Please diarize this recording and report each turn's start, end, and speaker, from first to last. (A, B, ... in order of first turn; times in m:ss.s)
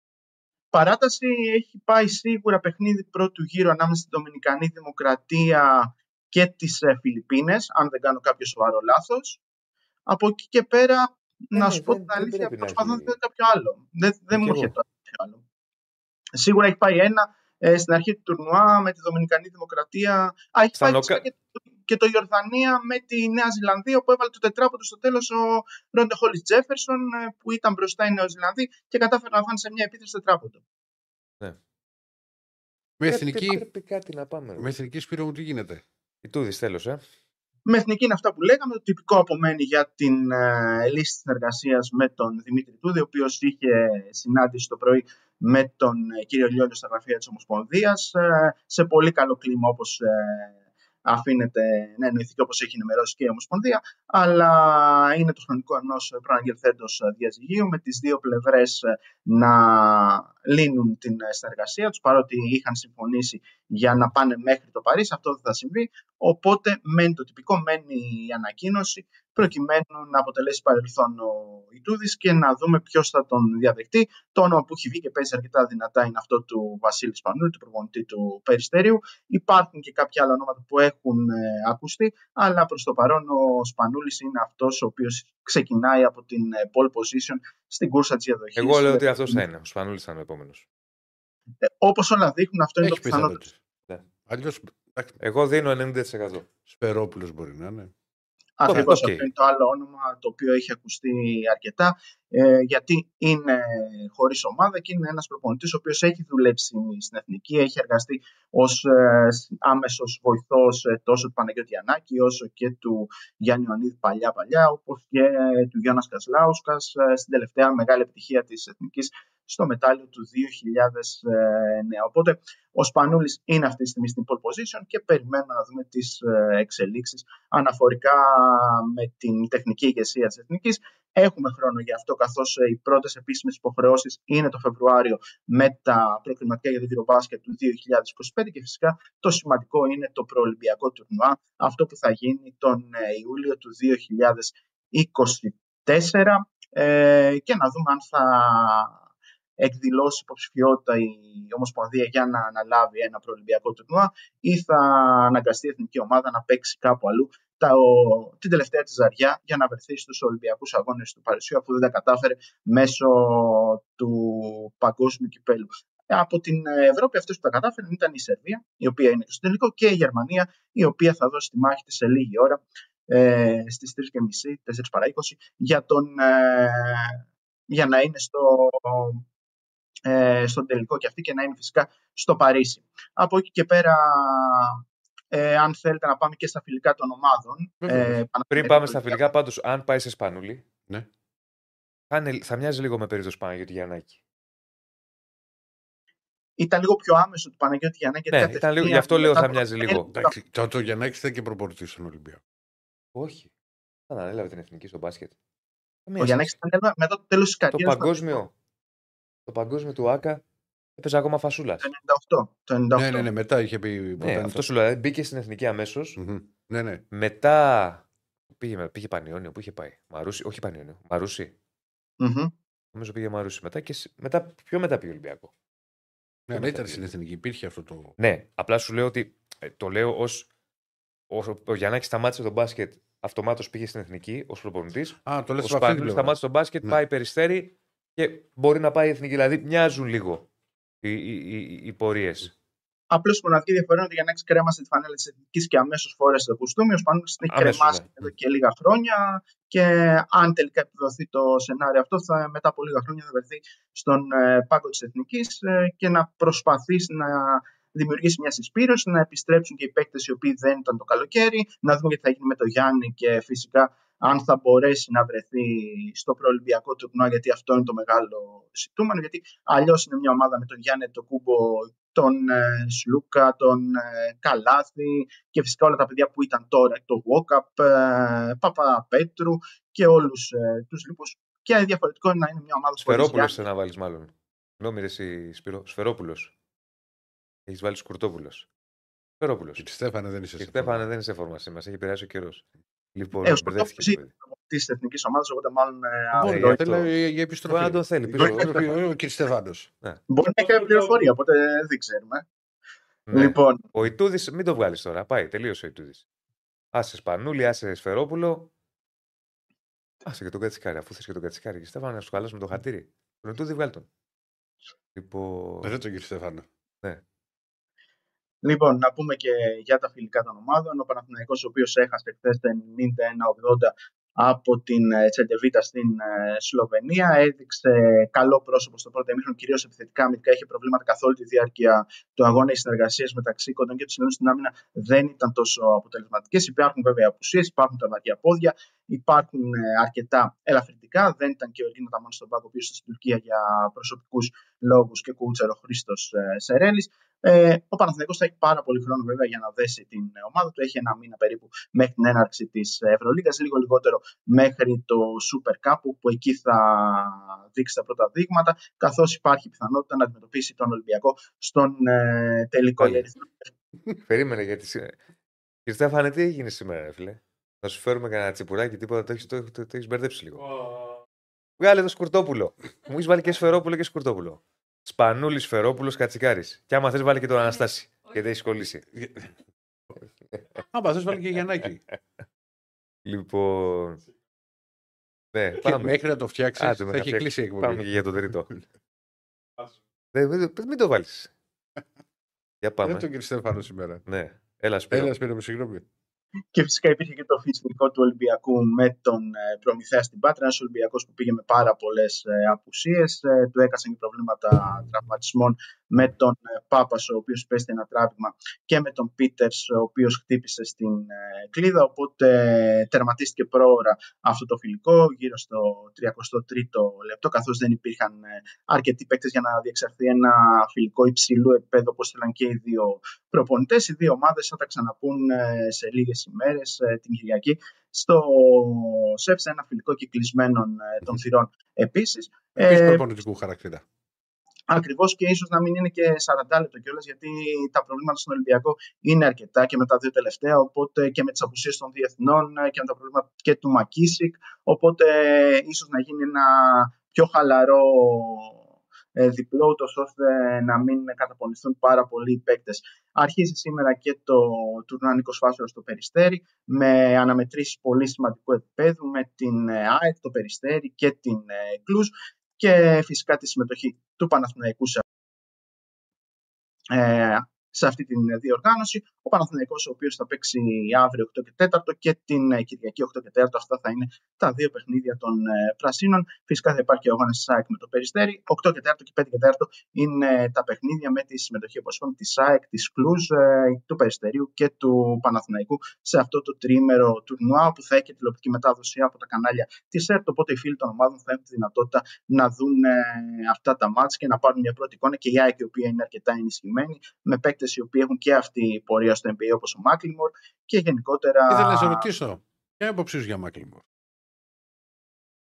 0:00.7-0:09.4 A
0:10.1-0:15.4 A
0:11.5-0:13.2 B
0:14.3-0:14.7 B
0:16.4-0:30.6 A
0:20.8-0:21.2 B
0:33.0-0:33.6 C
0:33.1-0:34.7 B
0:34.6-0:35.8 C
0:36.2-0:37.0 B
0:37.6-1:29.4 A
1:28.6-1:30.6 B
1:31.6-1:33.4 A
1:32.8-1:33.6 C
1:34.3-1:35.2 C
1:35.2-1:36.5 B
1:36.7-1:37.9 C
1:38.6-2:29.0 A
1:38.7-1:39.3 B
2:29.6-2:59.2 A
3:00.0-3:09.2 A
3:07.8-3:08.2 C
3:08.5-3:10.6 B
3:12.1-3:14.2 B
3:16.6-3:20.3 A
3:18.3-3:20.1 B
3:20.1-3:22.4 C
3:23.1-3:23.5 B
3:24.1-3:25.3 B
3:26.0-3:26.6 B
3:26.2-3:28.2 A
3:27.7-3:28.5 B
3:29.5-3:30.4 B
3:31.0-3:31.9 B
3:31.8-3:33.3 A
3:33.0-3:34.6 C
3:34.2-3:36.2 B
3:36.2-3:37.0 C
3:37.1-3:41.5 B
3:42.2-3:42.5 A
3:42.9-3:45.5 B
3:46.5-3:48.2 C
3:46.5-3:47.0 B
3:48.2-3:50.5 B
3:51.3-4:00.5 B
3:55.2-3:57.0 C
4:01.0-4:02.5 B
4:03.1-4:43.5 A
4:07.4-4:08.1 B
4:43.0-4:46.5 B
4:47.7-4:48.7 B
4:49.4-4:49.8 B
4:49.8-4:51.0 C
4:50.6-4:54.3 B
4:53.4-4:56.8 A
4:56.4-4:59.9 C
4:56.4-4:57.1 B
4:57.7-4:58.9 B
5:00.3-5:02.4 A
5:03.3-5:06.2 B
5:03.3-5:03.9 A
5:06.9-5:08.7 B
5:10.2-5:14.1 B
5:15.1-5:15.9 B
5:15.8-5:16.7 C
5:18.6-6:03.6 A
6:04.3-6:05.2 B
6:05.8-6:10.7 B
6:11.8-6:19.0 B
6:19.1-6:19.5 C
6:20.9-6:22.1 C
6:23.2-6:24.2 B
6:25.5-6:26.1 B
6:25.8-6:28.0 C
6:26.8-6:28.7 B
6:30.3-6:31.5 B
6:32.8-6:33.3 B
6:33.0-6:34.2 C
6:34.2-6:35.3 B
6:35.1-6:36.0 C
6:36.7-7:13.2 A
7:12.7-7:14.0 C
7:14.9-7:28.8 A
7:29.3-7:45.2 A
7:47.1-8:22.3 A
8:21.7-8:24.0 C